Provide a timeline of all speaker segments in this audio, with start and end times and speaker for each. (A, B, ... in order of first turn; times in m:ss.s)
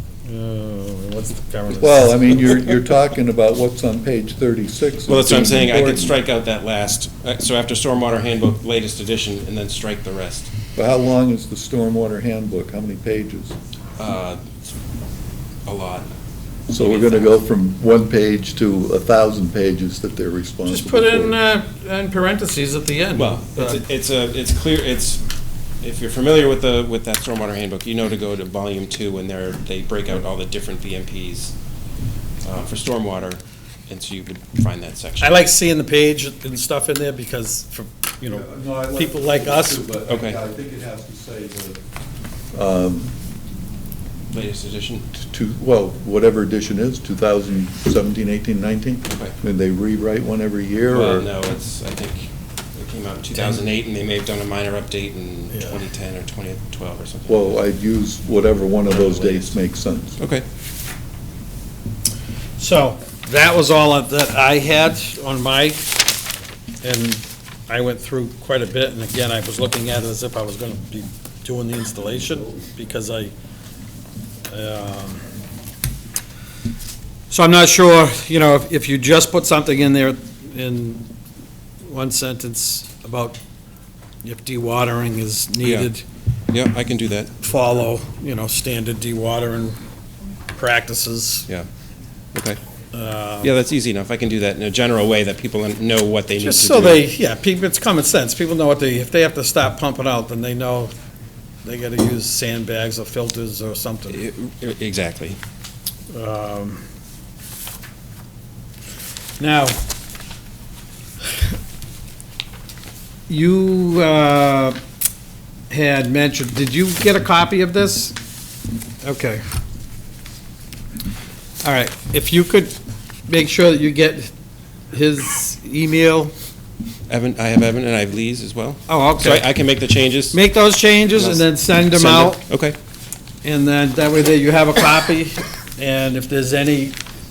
0:00.2-0:02.7 A
0:01.8-0:06.2 B
0:05.1-0:10.5 C
0:10.8-0:13.6 B
0:14.0-0:14.4 C
0:15.7-0:16.1 C
0:16.7-0:21.4 B
0:16.7-0:17.4 C
0:20.6-0:23.8 A
0:23.2-0:25.2 C
0:25.8-0:31.5 C
0:32.4-0:35.4 C
0:35.2-0:39.9 A
0:38.3-0:41.8 B
0:40.1-0:40.4 C
0:42.5-0:43.1 B
0:44.3-0:45.1 C
0:45.2-0:51.3 B
0:49.1-0:49.4 C
0:50.9-0:57.6 C
0:55.5-0:55.8 A
0:57.3-1:00.2 B
0:58.9-0:59.6 C
1:00.2-1:00.4 C
1:02.6-1:06.0 A
1:06.8-1:13.3 A
1:14.5-1:15.2 A
1:17.3-1:21.1 A
1:21.8-1:23.4 A
1:24.2-1:26.0 A
1:25.6-1:25.9 C
1:26.5-1:27.4 C
1:27.4-1:29.8 A
1:30.5-1:31.5 A
1:32.3-1:32.6 C
1:32.9-1:33.5 A
1:33.4-1:37.0 C
1:36.4-1:40.9 A
1:41.6-1:44.2 A
1:44.1-1:45.4 C
1:46.1-1:46.8 A
1:49.4-1:49.8 A
1:53.3-1:54.8 A
1:55.7-1:58.2 A
1:59.0-1:59.4 A
2:01.6-2:02.8 A
2:03.3-2:04.3 A
2:04.9-2:06.3 A
2:07.1-2:10.4 C
2:08.9-2:09.5 A
2:10.3-2:12.4 A
2:11.2-2:12.8 C
2:13.4-2:17.0 A